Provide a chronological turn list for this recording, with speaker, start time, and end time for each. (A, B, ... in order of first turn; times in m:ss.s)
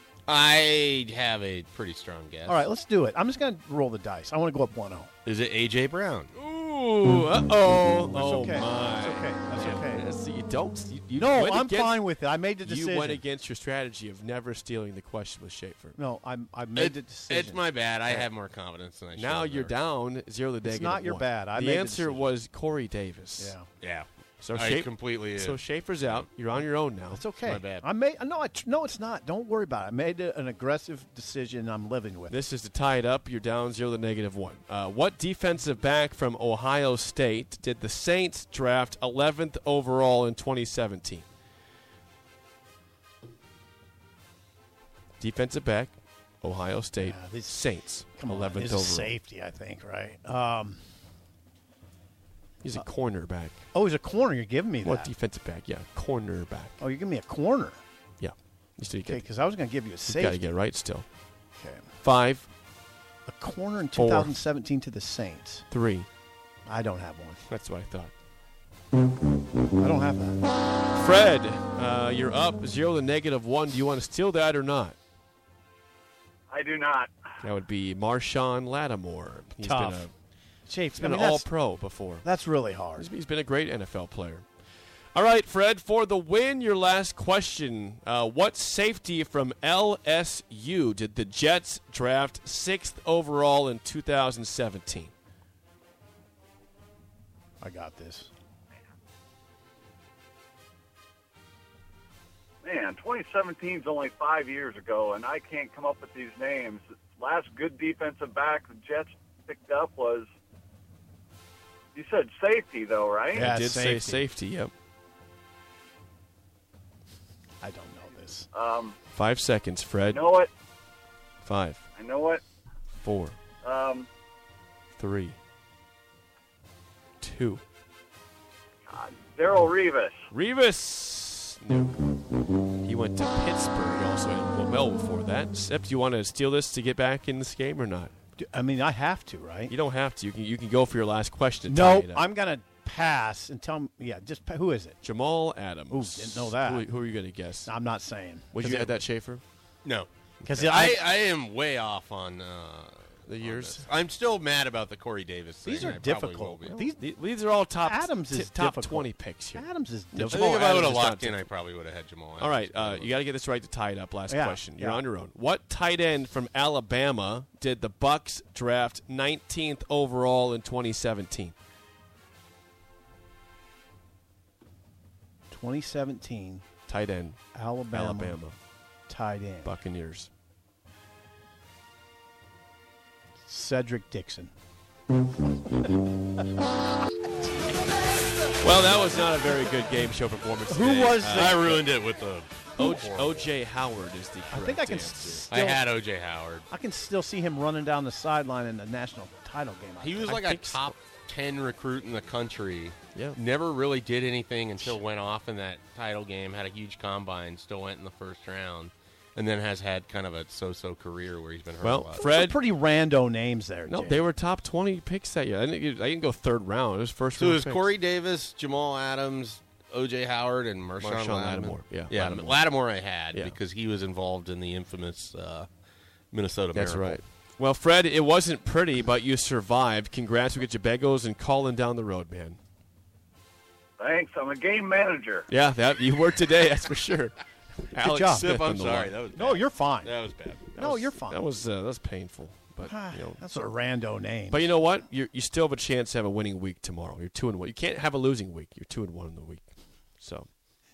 0:00.3-0:02.6 A
0:02.5-0:05.1 B
0:05.2-0:06.3 A
0:06.4-0:12.0 C
0:08.1-0:10.0 B
0:11.1-0:13.2 B
0:12.6-0:16.0 C
0:16.0-0:18.2 B
0:16.8-0:19.7 A
0:19.2-0:23.5 C
0:20.6-0:22.2 B
0:23.4-0:23.7 B
0:23.8-0:26.2 A
0:24.4-0:27.2 C
0:27.1-0:32.3 B
0:27.4-0:27.8 A
0:32.3-0:41.2 C
0:45.2-0:49.1 C
0:47.0-0:47.6 B
0:48.2-0:50.8 B
0:52.6-0:53.6 C
0:53.7-0:55.1 B
0:54.8-0:56.8 C
0:56.8-0:57.8 B
0:58.2-0:59.2 C
0:59.0-1:00.4 B
1:00.1-1:01.0 C
1:01.5-1:01.8 B
1:02.0-1:02.5 C
1:03.3-1:05.6 B
1:04.0-1:04.3 C
1:05.7-1:06.1 C
1:06.6-1:07.4 B
1:07.5-1:08.1 C
1:09.8-1:10.4 B
1:10.9-1:15.0 C
1:16.5-1:17.1 D
1:17.4-1:20.1 C
1:19.6-1:20.1 B
1:20.7-1:21.5 B
1:21.0-1:22.2 C
1:22.2-1:23.1 B
1:23.0-1:24.4 C
1:25.1-1:35.1 C
1:37.6-1:38.3 B
1:42.6-1:50.3 D
1:51.9-1:53.5 D
1:53.3-1:54.2 B
1:53.4-1:54.7 C
1:57.6-1:58.5 B
1:58.5-1:59.0 D
1:59.1-2:00.2 C
2:00.1-2:00.5 D
2:01.4-2:01.8 C
2:02.0-2:02.4 D
2:02.9-2:03.4 C
2:03.6-2:04.1 D
2:05.0-2:05.4 C
2:07.2-2:07.6 C
2:08.9-2:10.3 D
2:10.3-2:12.2 C
2:12.8-2:18.1 C
2:18.4-2:19.7 B
2:19.7-2:22.3 C
2:21.7-2:25.0 B
2:25.0-2:27.7 C
2:25.9-2:26.8 B
2:27.6-2:29.0 B
2:28.5-2:29.4 C
2:29.8-2:36.7 A
2:30.4-2:31.0 B
2:33.2-2:33.9 C
2:35.6-2:37.0 B
2:36.6-2:41.4 C
2:37.8-2:40.5 B
2:40.3-2:43.1 A
2:42.4-2:51.5 C
2:44.3-2:45.0 B
2:55.5-2:56.6 B
2:56.9-2:58.6 C
2:57.5-2:58.4 B
2:59.1-2:59.7 B
2:59.6-3:00.3 C
3:03.5-3:04.5 B
3:08.6-3:11.7 C
3:10.7-3:11.8 B
3:11.2-3:13.4 A
3:12.8-3:15.4 C
3:14.5-3:15.9 B
3:15.5-3:16.7 A
3:16.7-3:20.4 B
3:20.0-3:32.3 A
3:20.3-3:20.9 C
3:31.8-3:32.6 C
3:32.2-3:34.2 B
3:33.9-3:37.8 C
3:37.4-3:45.7 A
3:41.0-3:42.6 C
3:46.3-3:47.2 A
3:46.7-3:52.6 C
3:54.0-3:55.5 D
3:55.5-3:59.1 C
3:57.9-3:58.6 B
3:58.3-4:00.7 A
3:59.3-4:00.1 B
4:00.8-4:01.4 B
4:00.8-4:03.4 C
4:02.8-4:04.7 B
4:04.5-4:09.6 C
4:10.2-4:10.5 C